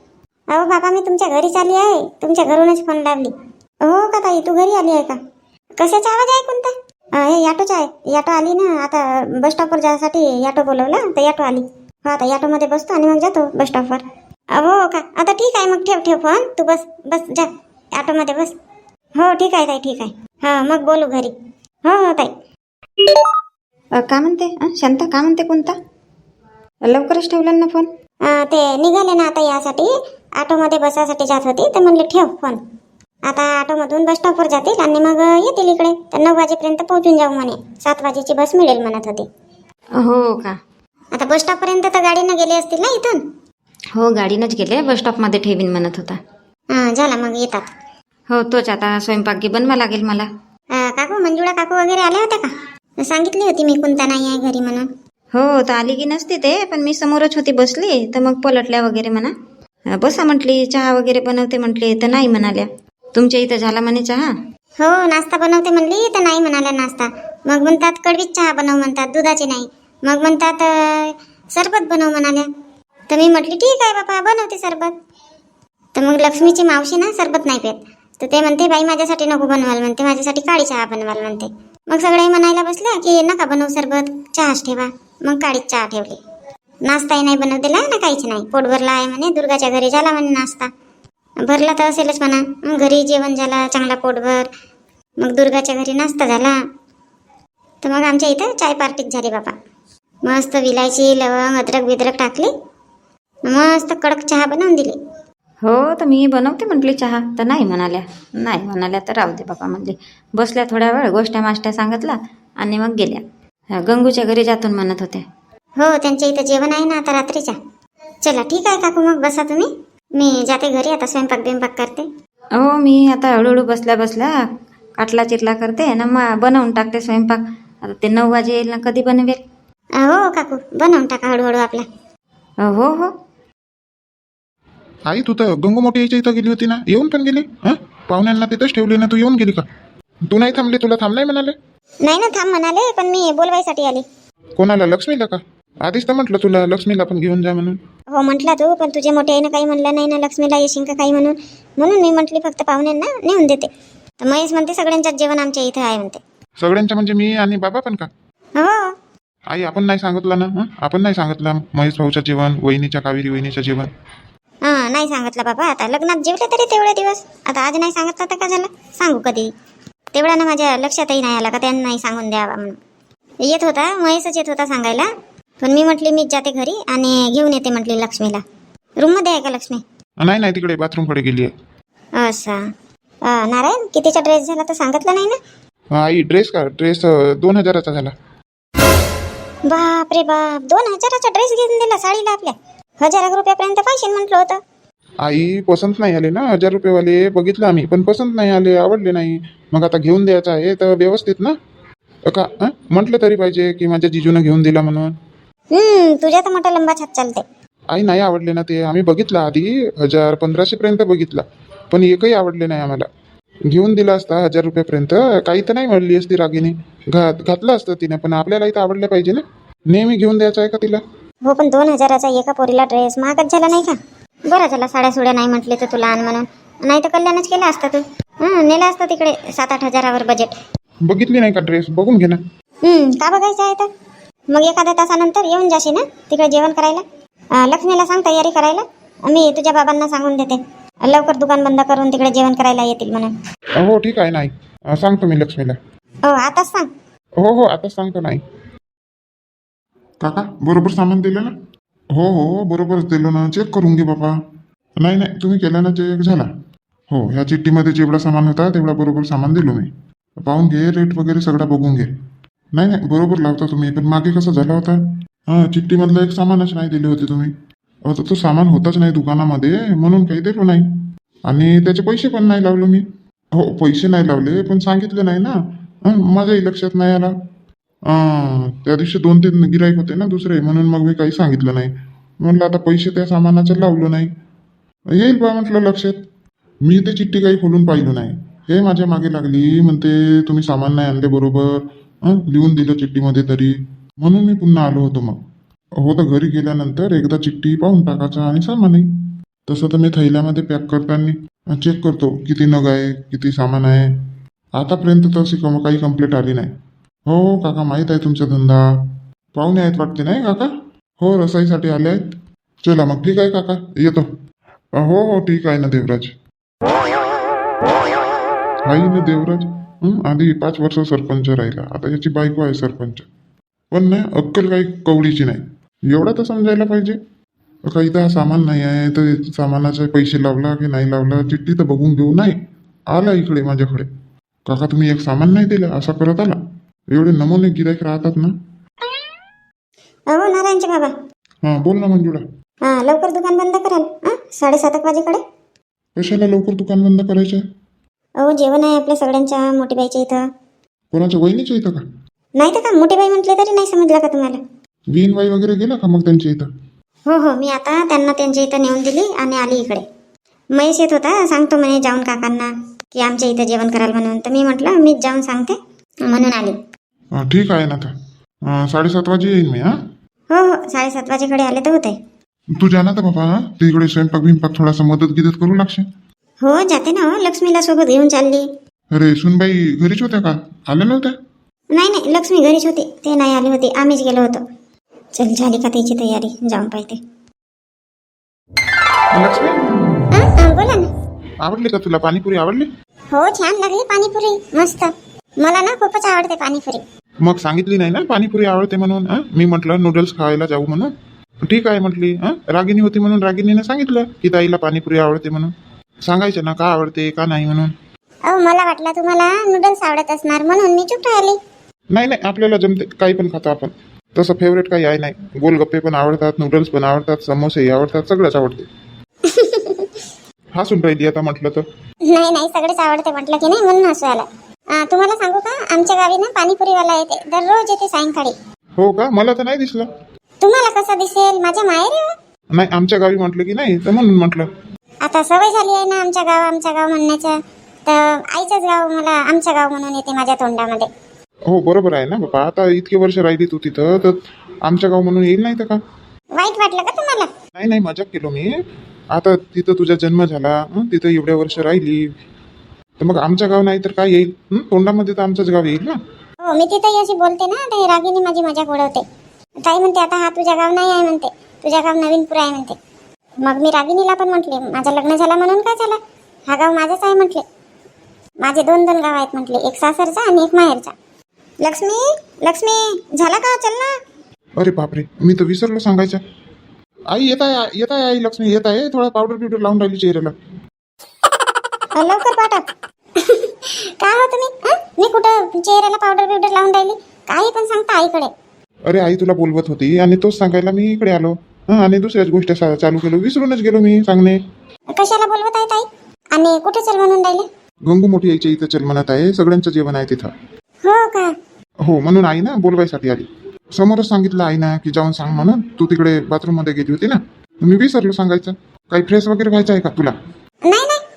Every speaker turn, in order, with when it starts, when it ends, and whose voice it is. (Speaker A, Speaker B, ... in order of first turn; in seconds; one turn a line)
Speaker A: 0.5-3.3
Speaker A: 3.8-5.2
Speaker A: 5.8-18.6
Speaker A: 19.2-21.3
Speaker A: 21.9-22.3
Speaker B: 24.0-25.8
Speaker B: 26.9-27.9
Speaker A: 28.2-32.6
Speaker A: 33.3-39.3
Speaker B: 40.0-40.6
Speaker A: 41.1-43.2
Speaker B: 44.0-46.2
Speaker A: 46.7-47.7
Speaker B: 48.3-50.3
Speaker A: 50.8-52.5
Speaker A: 53.0-54.9
Speaker B: 55.3-59.3
Speaker B: 60.0-64.3
Speaker A: 64.8-72.5
Speaker A: 73.1-75.0
Speaker A: 76.0-86.2
Speaker A: 86.9-90.7
Speaker A: 91.4-94.5
Speaker A: 95.2-96.6
Speaker A: 97.8-99.5
Speaker A: 100.3-102.5
Speaker A: 103.5-105.0
Speaker B: 105.6-113.2
Speaker B: 113.7-115.2
Speaker A: 115.8-117.6
Speaker A: 118.2-122.1
Speaker B: 122.6-124.3
Speaker B: 125.0-129.4
Speaker A: 130.0-131.9
Speaker B: 132.6-133.1
Speaker C: 135.1-139.7
Speaker C: 140.3-141.6
Speaker A: 142.1-144.1
Speaker C: 144.6-147.8
Speaker A: 148.1-153.7
Speaker A: 154.2-156.2
Speaker C: 156.6-158.1
Speaker A: 158.6-158.9
Speaker C: 159.5-163.9
Speaker A: 164.7-169.5
Speaker A: 170.1-172.8
Speaker A: 173.4-175.1
Speaker A: 175.6-178.4
Speaker A: 179.0-179.8
Speaker C: 180.2-181.5
Speaker A: 182.2-182.6
Speaker A: 183.3-185.4
Speaker C: 185.9-188.1
Speaker A: 189.7-194.6
Speaker C: 195.2-201.6
Speaker C: 202.3-205.1
Speaker A: 205.7-207.4
Speaker C: 207.9-213.1
Speaker C: 213.7-221.0
Speaker A: 221.5-224.0
Speaker A: 224.5-230.6
Speaker C: 231.1-232.4
Speaker A: 232.8-233.9
Speaker A: 234.5-237.1
Speaker A: 237.6-243.3
Speaker C: 243.8-245.8
Speaker A: 246.3-246.9
Speaker C: 247.4-248.4
Speaker C: 250.2-251.6
Speaker C: 252.1-254.3
Speaker C: 255.0-256.5
Speaker C: 257.1-262.1
Speaker C: 262.7-267.5
Speaker C: 268.1-277.3
Speaker C: 278.1-284.3
Speaker C: 285.1-286.2
Speaker C: 286.9-295.4
Speaker C: 296.0-299.1
Speaker C: 299.7-304.2
Speaker C: 304.8-306.7
Speaker C: 307.3-309.0
Speaker C: 309.6-312.3
Speaker C: 312.8-314.3
Speaker C: 314.9-316.3
Speaker C: 318.9-323.3
Speaker C: 323.9-327.2
Speaker C: 327.9-332.6
Speaker C: 333.1-334.1
Speaker C: 334.7-336.6
Speaker C: 337.1-338.6
Speaker A: 340.3-341.1
Speaker C: 341.6-342.4
Speaker A: 342.9-345.4
Speaker C: 346.2-347.6
Speaker A: 348.4-350.4
Speaker C: 351.1-352.0
Speaker A: 352.6-354.6
Speaker C: 355.1-356.7
Speaker A: 357.3-360.1
Speaker A: 360.8-366.8
Speaker C: 367.4-368.1
Speaker C: 368.7-369.9
Speaker A: 370.5-372.2
Speaker C: 372.7-376.1
Speaker A: 376.6-378.7
Speaker C: 379.1-381.4
Speaker A: 381.9-384.6
Speaker A: 385.4-387.2
Speaker C: 389.3-390.2
Speaker A: 390.3-391.1
Speaker C: 391.6-392.9
Speaker A: 393.3-397.0
Speaker C: 397.4-401.1
Speaker C: 401.6-405.7
Speaker C: 406.3-407.9
Speaker A: 408.5-411.6
Speaker C: 412.1-418.9
Speaker A: 419.4-420.2
Speaker C: 420.8-421.9
Speaker A: 422.3-428.6
Speaker C: 429.0-430.1
Speaker A: 430.6-432.3
Speaker C: 432.7-434.7
Speaker A: 435.2-441.1
Speaker C: 441.7-446.0
Speaker A: 446.6-447.5
Speaker C: 447.8-448.7
Speaker C: 449.3-452.2
Speaker C: 453.2-456.2
Speaker A: 456.6-459.2
Speaker A: 459.9-463.0
Speaker A: 463.6-467.6
Speaker A: 468.6-471.1
Speaker A: 471.8-474.2
Speaker C: 474.8-476.4
Speaker C: 477.3-480.6
Speaker A: 482.2-488.5
Speaker C: 489.1-494.6
Speaker A: 495.2-497.7
Speaker C: 498.1-500.5
Speaker A: 501.0-501.5
Speaker C: 502.0-510.4
Speaker A: 510.9-511.2